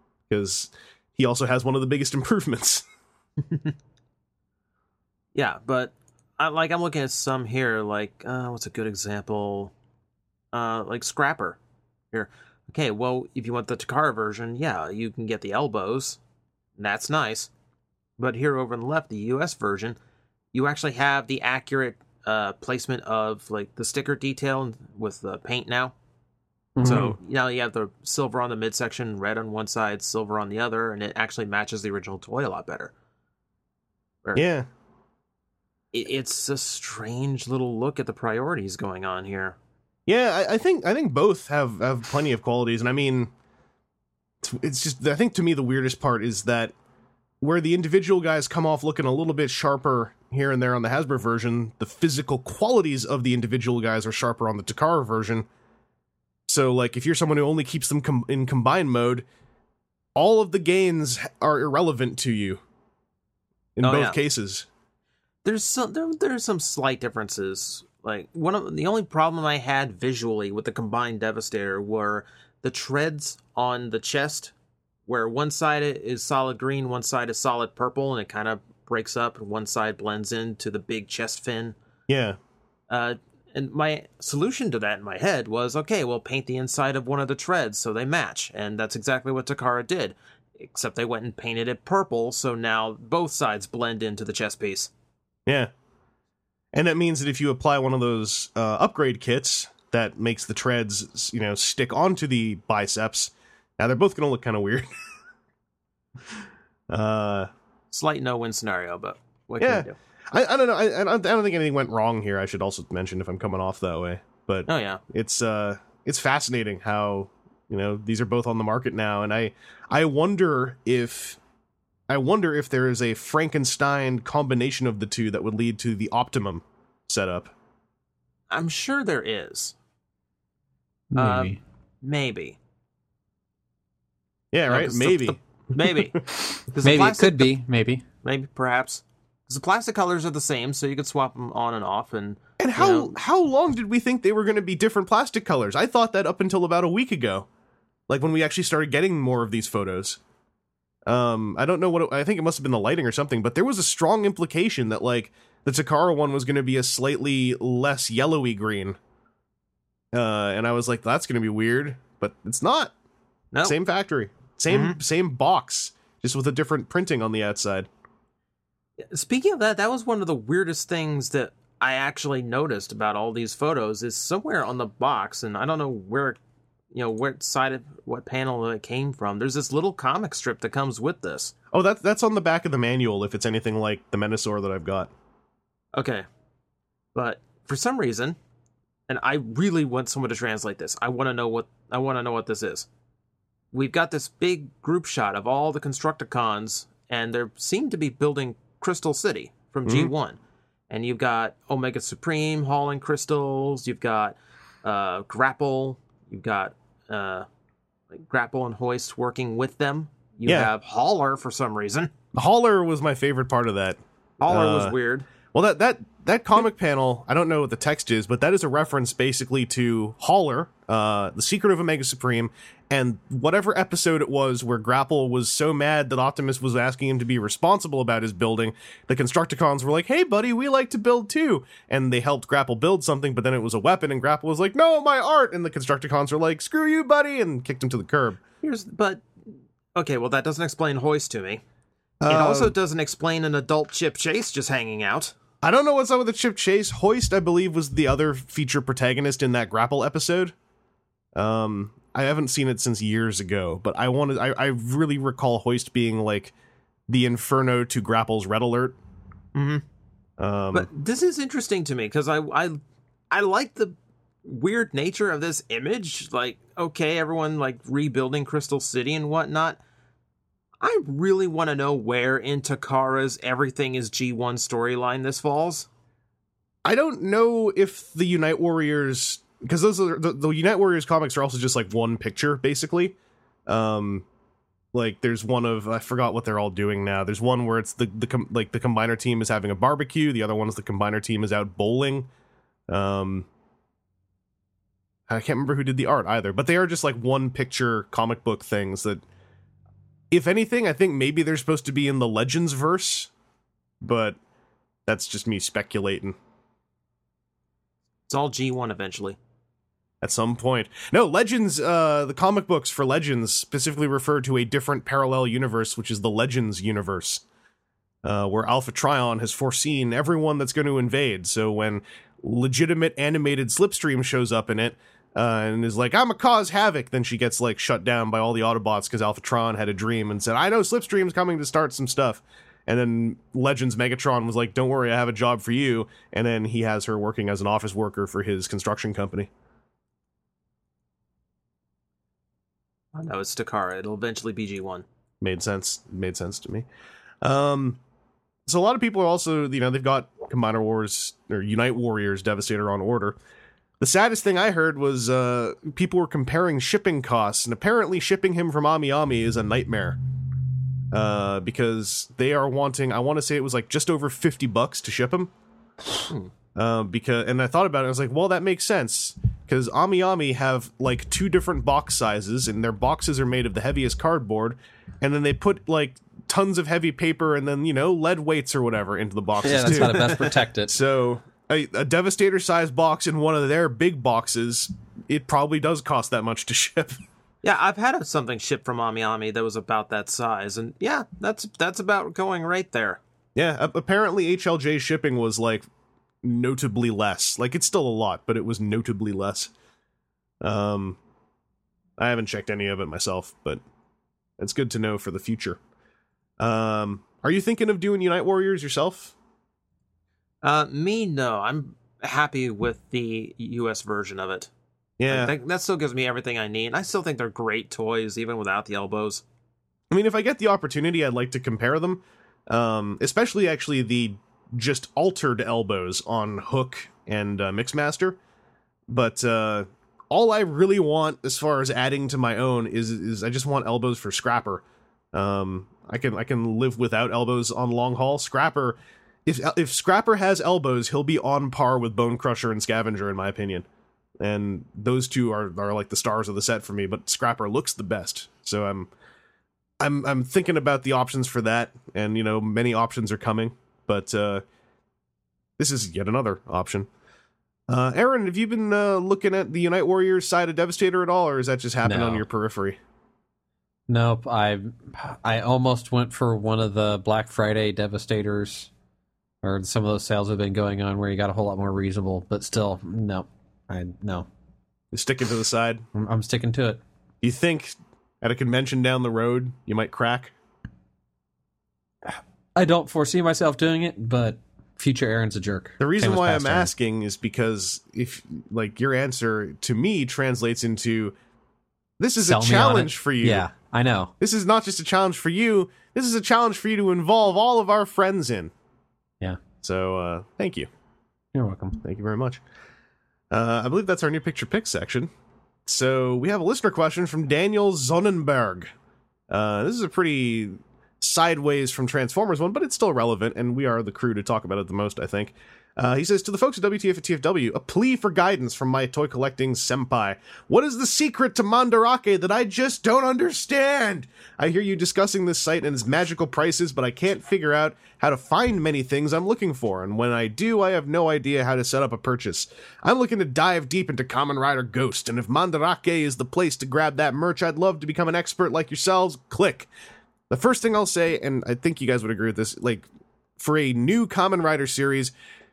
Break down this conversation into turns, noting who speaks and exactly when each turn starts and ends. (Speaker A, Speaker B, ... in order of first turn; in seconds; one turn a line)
Speaker A: 0.3-2.8
Speaker B: 5.3-9.7
Speaker B: 10.5-11.6
Speaker B: 12.1-16.2
Speaker B: 16.8-17.5
Speaker B: 18.2-19.9
Speaker B: 20.5-25.9
Speaker C: 26.8-27.1
Speaker B: 26.8-32.9
Speaker A: 26.8-27.1
Speaker A: 34.3-34.7
Speaker B: 35.9-39.5
Speaker A: 40.1-43.3
Speaker A: 44.4-46.7
Speaker A: 47.4-55.5
Speaker A: 56.5-59.2
Speaker A: 60.1-62.6
Speaker A: 63.8-64.7
Speaker B: 63.8-64.2
Speaker B: 65.4-74.5
Speaker B: 75.1-81.7
Speaker A: 82.1-82.4
Speaker B: 82.9-94.9
Speaker A: 95.5-95.7
Speaker A: 96.7-104.9
Speaker A: 106.9-107.5
Speaker B: 107.9-109.9
Speaker A: 109.6-121.4
Speaker B: 114.7-115.0
Speaker A: 122.1-127.5
Speaker B: 128.5-129.7
Speaker C: 131.1-131.6
Speaker B: 131.2-132.6
Speaker A: 134.5-135.4
Speaker B: 134.7-137.5
Speaker C: 136.8-138.0
Speaker B: 138.2-143.1
Speaker A: 142.6-147.5
Speaker A: 148.1-150.2
Speaker A: 151.1-159.0
Speaker A: 160.1-162.9
Speaker A: 163.6-167.9
Speaker B: 164.7-165.0
Speaker B: 169.1-176.4
Speaker B: 176.9-181.5
Speaker A: 181.7-185.1
Speaker B: 185.9-186.2
Speaker B: 187.1-188.4
Speaker B: 189.1-192.9
Speaker B: 193.7-200.4
Speaker A: 199.8-200.1
Speaker B: 200.9-207.4
Speaker B: 208.1-212.1
Speaker A: 212.3-214.9
Speaker B: 214.4-215.2
Speaker A: 215.5-238.4
Speaker B: 238.6-239.2
Speaker B: 239.9-241.6
Speaker A: 242.2-242.7
Speaker B: 242.3-245.3
Speaker A: 245.6-250.5
Speaker A: 251.3-256.5
Speaker A: 257.1-258.9
Speaker B: 259.5-259.8
Speaker A: 260.4-260.9
Speaker B: 260.7-262.8
Speaker B: 263.3-269.8
Speaker B: 270.8-275.9
Speaker A: 276.8-283.1
Speaker A: 283.7-284.2
Speaker A: 284.9-292.3
Speaker A: 292.9-293.5
Speaker A: 295.3-299.2
Speaker A: 300.3-303.3
Speaker A: 304.0-304.4
Speaker A: 305.1-306.4
Speaker B: 308.3-309.4
Speaker A: 310.2-317.4
Speaker A: 318.2-339.5
Speaker B: 343.1-345.0
Speaker A: 345.4-346.9
Speaker A: 347.4-348.0
Speaker A: 348.6-353.4
Speaker A: 354.0-360.2
Speaker A: 361.1-365.5
Speaker A: 366.8-387.2
Speaker C: 379.6-381.0
Speaker B: 387.6-393.2
Speaker A: 393.6-395.9
Speaker A: 396.4-399.7
Speaker A: 400.6-401.2
Speaker A: 402.2-403.8
Speaker A: 404.6-405.8
Speaker A: 406.6-409.3
Speaker B: 410.6-414.7
Speaker A: 415.2-415.5
Speaker B: 415.3-419.4
Speaker A: 420.1-428.4
Speaker A: 429.1-434.8
Speaker A: 435.3-443.9
Speaker A: 444.4-449.1
Speaker A: 450.0-454.6
Speaker A: 455.8-457.1
Speaker A: 457.9-463.0
Speaker C: 462.0-462.4
Speaker C: 464.1-468.9
Speaker C: 469.6-474.5
Speaker A: 475.1-476.0
Speaker C: 476.1-477.0
Speaker A: 477.4-480.5
Speaker C: 482.2-486.9
Speaker A: 486.0-491.3
Speaker A: 492.2-493.7
Speaker C: 492.4-494.3
Speaker A: 494.4-498.7
Speaker A: 499.8-500.9
Speaker C: 501.5-502.0
Speaker A: 502.0-502.6
Speaker A: 503.5-505.3
Speaker A: 505.9-508.9
Speaker A: 509.5-539.9
Speaker A: 540.5-543.1
Speaker A: 543.6-545.3